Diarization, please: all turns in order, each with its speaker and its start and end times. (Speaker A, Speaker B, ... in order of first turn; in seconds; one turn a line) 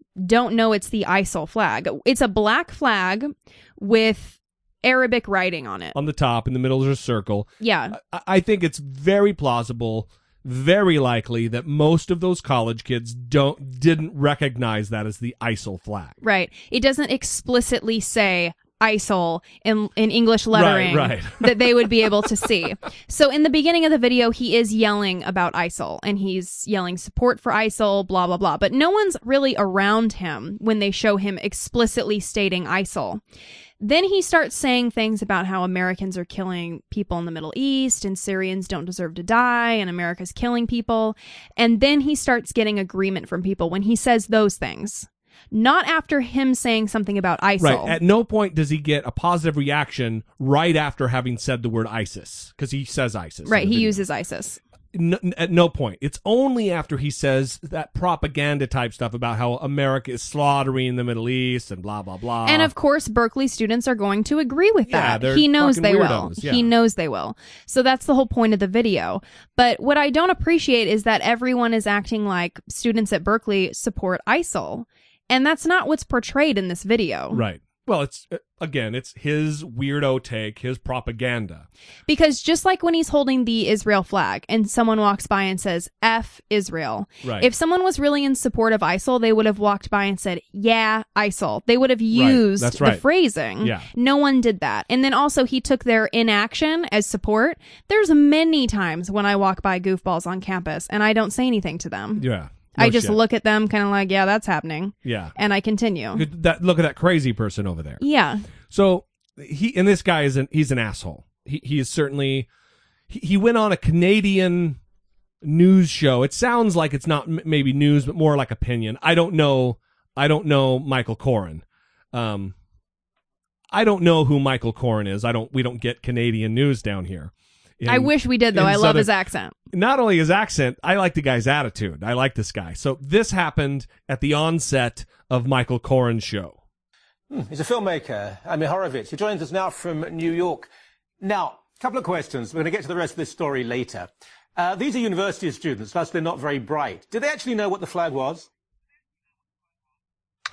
Speaker A: 0.2-5.9
Speaker B: 5.9-16.1
Speaker A: 7.6-8.0
Speaker A: 16.2-33.2
Speaker B: 20.5-21.8
Speaker A: 33.8-48.0
Speaker B: 47.6-54.0
Speaker A: 53.5-54.6
Speaker B: 54.9-62.7
Speaker A: 62.4-77.4
Speaker B: 64.9-66.7
Speaker B: 77.3-81.7
Speaker A: 82.1-102.2
Speaker B: 87.2-87.5
Speaker B: 92.1-93.0
Speaker B: 93.6-93.9
Speaker B: 102.2-103.2
Speaker A: 102.8-106.2
Speaker B: 105.0-105.3
Speaker B: 106.1-108.0
Speaker A: 108.0-108.5
Speaker B: 108.7-112.5
Speaker B: 113.1-114.8
Speaker B: 115.4-122.5
Speaker B: 123.7-129.1
Speaker A: 127.9-129.5
Speaker B: 129.7-136.6
Speaker C: 137.3-140.7
Speaker C: 141.2-148.5